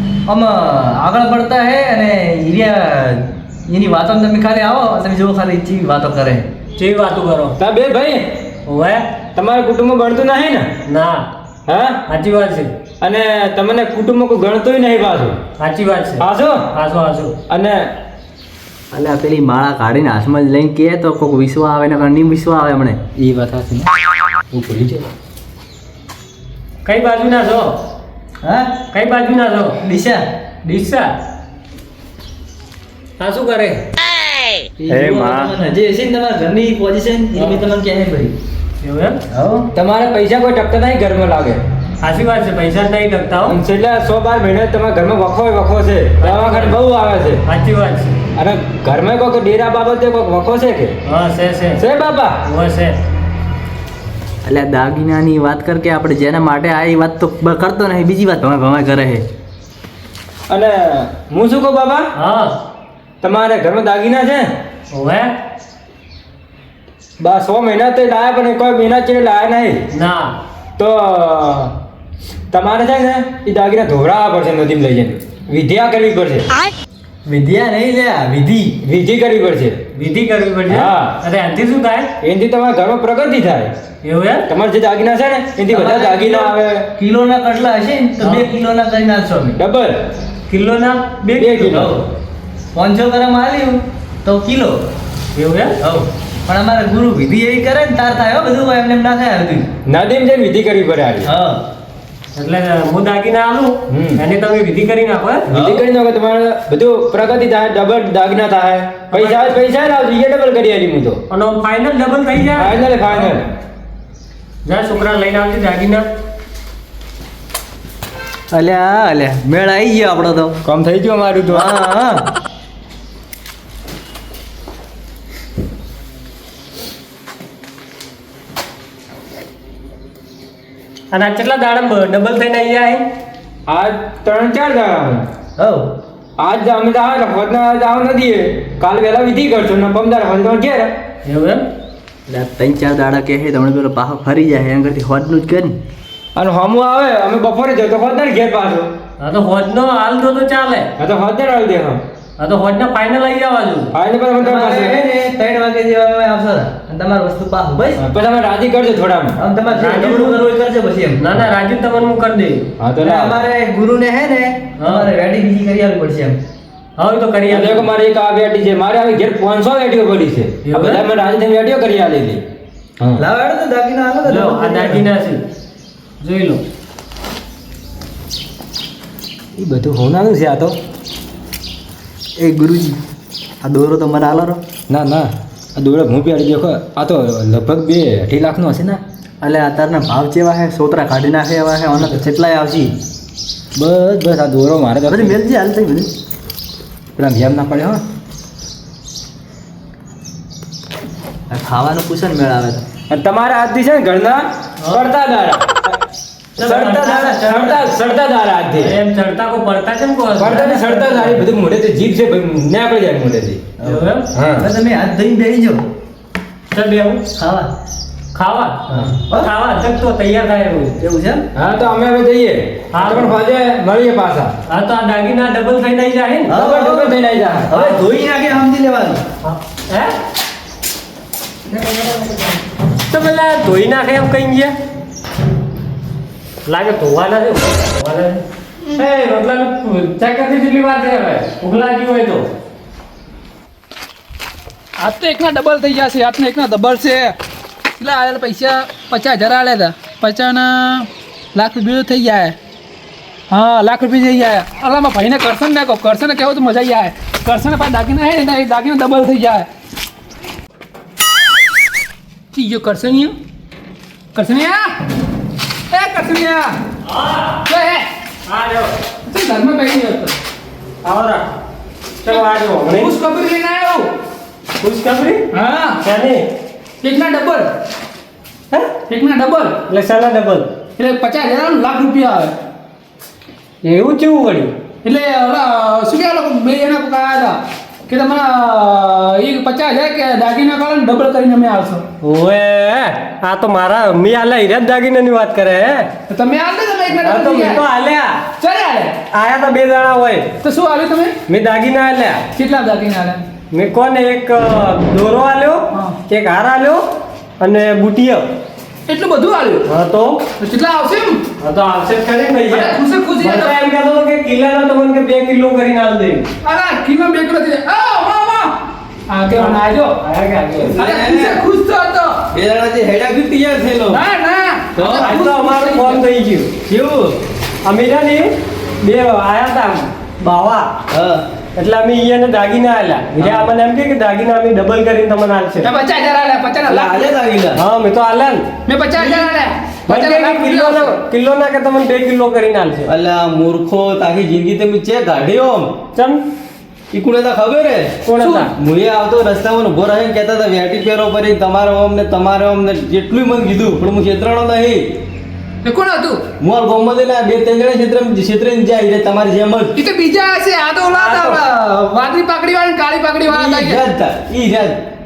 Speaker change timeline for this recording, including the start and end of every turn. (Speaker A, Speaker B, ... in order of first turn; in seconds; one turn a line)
Speaker A: 0.3-6.5
Speaker B: 6.8-7.6
Speaker C: 7.6-8.2
Speaker B: 8.7-9.0
Speaker C: 9.4-10.7
Speaker B: 10.9-11.3
Speaker C: 11.7-12.0
Speaker B: 12.1-12.7
Speaker C: 13.0-15.4
Speaker B: 15.6-17.3
Speaker C: 16.2-16.6
Speaker C: 17.5-17.9
Speaker A: 18.9-23.0
Speaker C: 23.2-23.9
Speaker C: 24.5-25.1
Speaker B: 26.9-27.7
Speaker A: 28.4-28.7
Speaker B: 28.9-29.8
Speaker A: 29.8-30.2
Speaker B: 30.6-31.1
Speaker B: 33.2-33.8
Speaker A: 34.8-38.4
Speaker C: 34.9-35.5
Speaker B: 37.4-37.6
Speaker B: 38.8-39.2
Speaker A: 39.3-39.7
Speaker C: 39.8-41.6
Speaker B: 42.0-43.6
Speaker C: 43.5-47.4
Speaker B: 46.2-46.8
Speaker B: 47.5-48.2
Speaker C: 48.4-51.0
Speaker B: 51.0-51.8
Speaker C: 51.8-52.4
Speaker B: 52.4-53.0
Speaker A: 54.5-59.2
Speaker C: 60.5-62.1
Speaker B: 62.1-62.5
Speaker C: 63.2-64.5
Speaker B: 64.9-65.3
Speaker C: 67.2-69.8
Speaker B: 69.9-70.3
Speaker C: 70.8-71.7
Speaker C: 72.5-76.5
Speaker A: 77.3-78.8
Speaker C: 78.8-79.8
Speaker B: 79.9-82.1
Speaker C: 80.7-81.1
Speaker C: 82.2-83.7
Speaker B: 84.0-84.5
Speaker C: 84.5-86.9
Speaker A: 85.7-89.6
Speaker B: 88.2-88.5
Speaker C: 89.6-90.0
Speaker B: 90.5-91.4
Speaker A: 91.2-92.0
Speaker C: 91.4-91.9
Speaker A: 92.7-94.8
Speaker B: 95.3-95.8
Speaker A: 95.8-99.7
Speaker C: 99.9-101.3
Speaker A: 101.2-101.6
Speaker B: 102.3-105.5
Speaker C: 103.9-104.2
Speaker C: 105.5-111.2
Speaker A: 105.5-105.8
Speaker B: 109.1-109.6
Speaker B: 111.3-113.3
Speaker C: 112.6-113.5
Speaker B: 114.7-116.0
Speaker A: 118.5-120.6
Speaker C: 120.6-121.7
Speaker A: 121.5-122.3
Speaker B: 131.1-133.0
Speaker C: 133.7-135.3
Speaker A: 135.6-135.9
Speaker C: 136.4-140.9
Speaker B: 141.2-141.6
Speaker A: 142.3-145.8
Speaker C: 146.3-148.9
Speaker B: 149.2-150.9
Speaker C: 151.0-152.0
Speaker B: 152.4-153.9
Speaker C: 153.9-155.0
Speaker A: 154.4-158.0
Speaker C: 158.0-159.4
Speaker A: 159.4-161.2
Speaker B: 159.8-160.4
Speaker B: 161.2-162.7
Speaker C: 162.8-163.4
Speaker A: 163.0-166.4
Speaker B: 164.8-165.1
Speaker B: 167.0-167.9
Speaker C: 167.5-172.4
Speaker B: 170.7-171.0
Speaker A: 173.2-175.1
Speaker B: 174.2-175.4
Speaker B: 176.2-176.6
Speaker C: 179.6-180.8
Speaker A: 182.4-183.0
Speaker A: 183.6-184.6
Speaker C: 184.9-189.0
Speaker A: 189.4-192.9
Speaker C: 193.8-195.3
Speaker A: 195.1-196.1
Speaker C: 197.2-198.0
Speaker A: 201.5-202.8
Speaker C: 203.1-205.9
Speaker B: 206.6-207.8
Speaker C: 206.6-208.9
Speaker A: 206.9-207.8
Speaker B: 208.8-211.4
Speaker C: 210.4-213.6
Speaker A: 213.8-215.9
Speaker B: 213.8-214.3
Speaker C: 214.3-214.7
Speaker B: 216.7-217.2
Speaker A: 217.4-217.7
Speaker B: 218.3-221.0
Speaker A: 218.9-219.5
Speaker A: 221.0-221.4
Speaker C: 221.6-224.5
Speaker B: 222.9-223.4
Speaker B: 224.7-226.6
Speaker A: 226.5-227.2
Speaker C: 226.6-227.7
Speaker A: 227.7-229.2
Speaker B: 227.7-228.0
Speaker B: 229.4-230.1
Speaker B: 233.1-234.7
Speaker B: 236.7-242.5
Speaker D: 245.0-247.4
Speaker D: 248.0-252.6
Speaker D: 253.5-259.7
Speaker D: 262.5-263.4
Speaker D: 264.3-265.0
Speaker D: 265.9-266.8
Speaker B: 267.0-267.6
Speaker D: 267.7-268.1
Speaker B: 268.4-268.9
Speaker D: 269.3-270.4
Speaker B: 271.0-271.6
Speaker B: 272.2-273.1
Speaker D: 272.3-274.1
Speaker B: 274.8-275.4
Speaker D: 275.5-276.0
Speaker B: 276.0-276.4
Speaker D: 277.0-277.7
Speaker D: 279.1-279.8
Speaker B: 279.9-280.7
Speaker D: 281.0-282.6
Speaker B: 283.8-284.7
Speaker D: 285.0-292.1
Speaker B: 292.2-296.1
Speaker D: 296.3-297.8
Speaker B: 297.2-298.4
Speaker D: 298.6-299.2
Speaker B: 299.3-300.5
Speaker D: 300.6-301.4
Speaker B: 301.5-302.4
Speaker D: 302.6-303.4
Speaker B: 303.7-307.0
Speaker B: 307.6-308.4
Speaker D: 309.1-309.9
Speaker B: 309.9-310.4
Speaker D: 310.6-311.4
Speaker B: 311.6-316.5
Speaker D: 312.7-313.8
Speaker D: 316.6-318.8
Speaker D: 319.3-320.2
Speaker B: 319.6-321.0
Speaker E: 320.9-321.6
Speaker D: 321.0-322.4
Speaker E: 322.5-324.2
Speaker D: 324.1-326.2
Speaker E: 325.0-325.3
Speaker B: 325.2-326.7
Speaker E: 326.9-327.4
Speaker B: 327.9-328.5
Speaker B: 329.0-330.9
Speaker E: 331.1-331.4
Speaker B: 331.8-335.9
Speaker E: 333.4-333.7
Speaker D: 335.8-337.3
Speaker E: 336.9-337.8
Speaker B: 337.8-338.6
Speaker D: 338.9-341.1
Speaker B: 339.2-339.5
Speaker B: 340.1-343.1
Speaker E: 343.1-345.9
Speaker B: 346.1-346.4
Speaker E: 347.1-348.1
Speaker B: 348.3-348.7
Speaker D: 348.4-348.6
Speaker E: 348.8-355.0
Speaker D: 355.9-356.4
Speaker E: 356.6-359.9
Speaker D: 360.0-364.0
Speaker B: 361.1-361.6
Speaker E: 363.5-365.0